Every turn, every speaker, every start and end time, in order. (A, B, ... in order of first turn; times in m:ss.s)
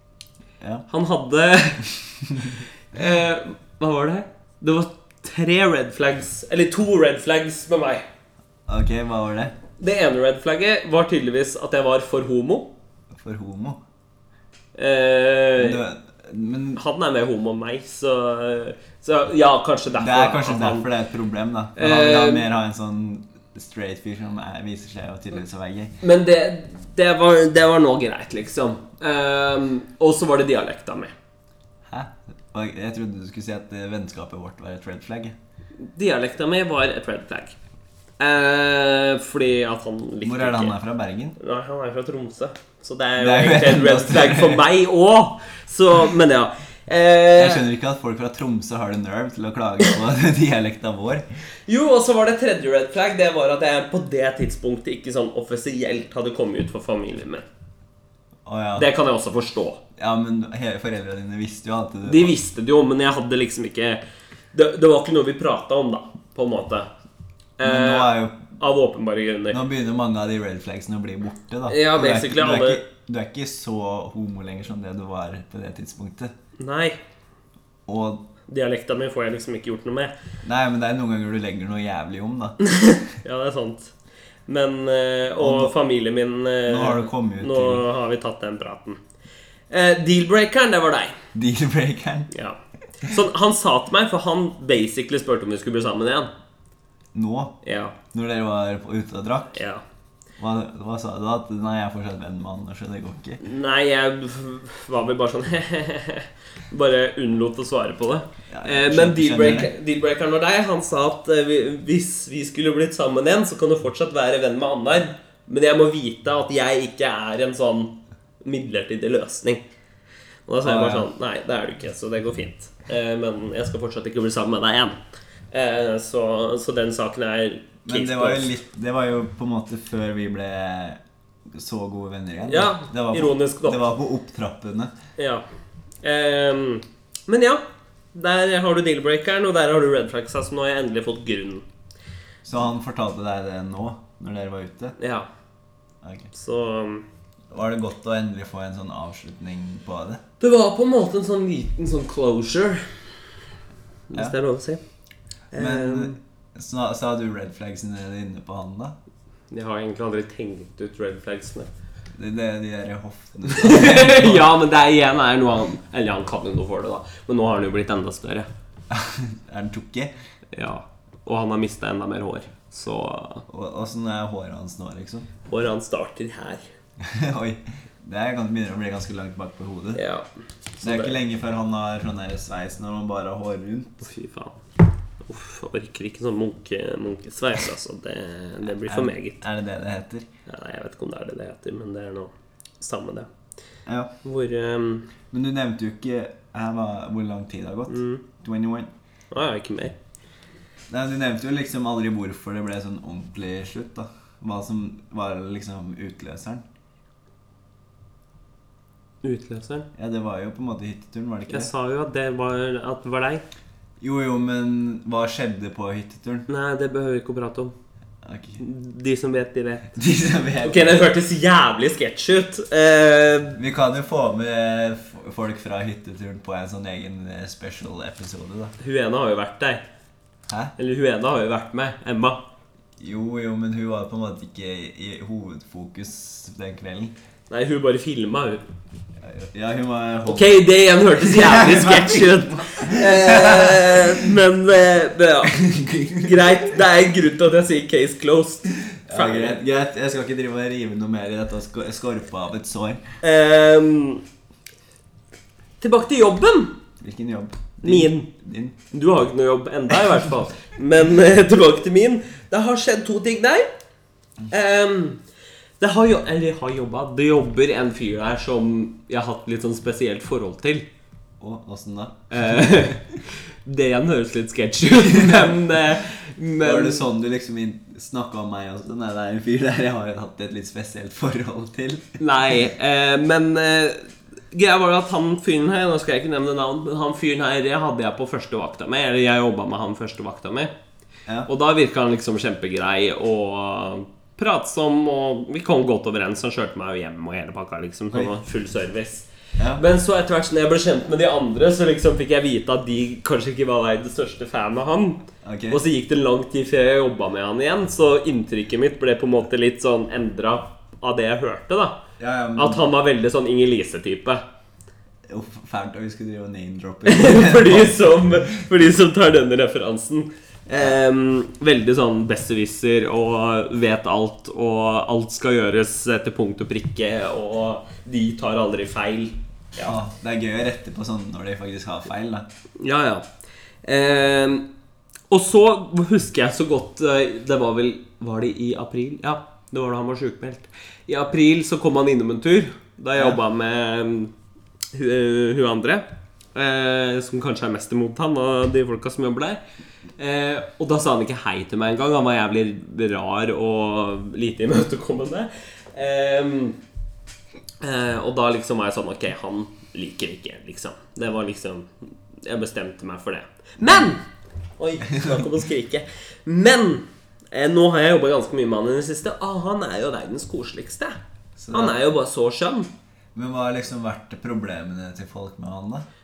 0:00.9-0:08.0 A
0:02.2-0:02.6 B
0:08.7-0:09.6 B
0:09.8-0:12.7 A
0:13.1-0:13.8 B
0:14.8-0:15.8 A
0:15.6-0:16.8 B
0:16.8-0:20.9 A
0:20.0-0:26.0 B
0:21.8-0:22.5 A
0:26.0-0:31.1 A
0:31.9-0:35.4 B
0:35.8-0:37.6 A
0:38.2-0:40.8 A
0:40.2-0:41.4 B
0:41.4-0:47.6 A
0:43.2-0:44.6 B
0:47.4-0:51.2 B
0:51.7-0:57.5 A
0:58.4-0:58.9 B
0:58.8-0:59.8 A
1:00.0-1:02.3 B
1:02.0-1:04.0 A
1:04.5-1:06.9 A
1:07.6-1:09.6 A
1:07.6-1:08.4 B
1:09.5-1:16.3 B
1:11.7-1:12.8 A
1:16.6-1:17.0 A
1:17.9-1:18.3 B
1:18.5-1:20.1 A
1:20.4-1:22.6 B
1:22.6-1:23.9 A
1:24.5-1:29.0 A
1:25.4-1:25.8 B
1:26.7-1:27.8 B
1:29.7-1:31.2 A
1:31.3-1:32.3 B
1:32.3-1:36.3 A
1:37.1-1:37.6 B
1:37.6-1:38.0 A
1:38.1-1:39.6 B
1:39.5-1:39.8 A
1:40.4-1:43.4 B
1:43.4-1:59.6 A
1:48.5-1:49.7 B
2:00.5-2:05.0 A
2:00.6-2:01.1 B
2:05.5-2:08.5 A
2:07.9-2:14.9 B
2:12.5-2:13.8 A
2:15.2-2:15.4 A
2:16.0-2:17.6 A
2:18.1-2:21.6 A
2:22.4-2:25.0 B
2:25.0-2:25.3 A
2:26.0-2:26.3 B
2:26.3-2:27.1 A
2:27.5-2:30.2 B
2:30.4-2:32.9 A
2:34.1-2:34.8 A
2:35.5-2:36.2 A
2:35.6-2:39.0 B
2:39.5-2:41.7 A
2:42.2-2:44.5 B
2:43.5-2:48.5 A
2:48.9-2:50.1 B
2:50.5-2:53.5 A
2:53.5-2:55.3 B
2:55.5-2:56.6 A
2:57.0-3:00.0 B
3:00.0-3:01.2 A
3:00.8-3:04.0 B
3:04.0-3:04.6 A
3:05.2-3:09.4 A
3:08.7-3:10.3 B
3:10.5-3:13.3 A
3:13.9-3:14.1 B
3:14.2-3:15.1 A
3:15.3-3:18.9 B
3:17.9-3:18.2 A
3:19.3-3:20.0 A
3:20.9-3:26.6 B
3:29.2-3:29.9 A
3:30.0-3:31.7 B
3:31.5-3:33.4 A
3:34.0-3:36.5 B
3:36.5-3:37.7 A
3:38.2-3:38.6 B
3:38.6-3:39.9 A
3:39.9-3:41.1 B
3:40.6-3:43.6 A
3:43.6-3:48.8 B
3:48.8-3:49.8 A
3:50.5-3:50.7 B
3:50.8-3:52.4 A
3:53.0-3:57.2 B
3:57.5-3:58.6 A
3:59.2-4:00.6 B
4:00.3-4:05.6 A
4:01.1-4:04.3 B
4:05.5-4:06.5 B
4:06.2-4:09.6 A
4:08.9-4:13.0 B
4:13.2-4:14.2 A
4:15.8-4:16.8 A
4:17.0-4:18.8 B
4:17.8-4:18.3 A
4:18.9-4:23.7 A
4:24.5-4:25.2 A
4:25.8-4:30.9 A
4:31.4-4:33.0 B
4:32.3-4:37.1 A
4:35.0-4:35.7 B
4:36.6-4:42.2 B
4:42.2-4:50.7 A
4:51.5-5:12.0 A
4:59.6-4:59.8 B
5:05.4-5:05.8 B
5:12.2-5:12.8 B
5:12.6-5:14.4 A
5:15.3-5:18.4 B
5:17.0-5:30.0 A
5:29.8-5:32.5 B
5:32.8-5:33.3 A
5:33.8-5:34.7 A
5:35.3-5:44.3 A
5:44.9-5:49.6 A
5:50.2-5:56.8 A
5:57.8-6:01.9 A
6:02.4-6:04.2 A
6:04.8-6:11.2 A
6:05.1-6:05.5 B
6:11.6-6:12.0 B
6:11.7-6:12.9 A
6:13.3-6:16.1 B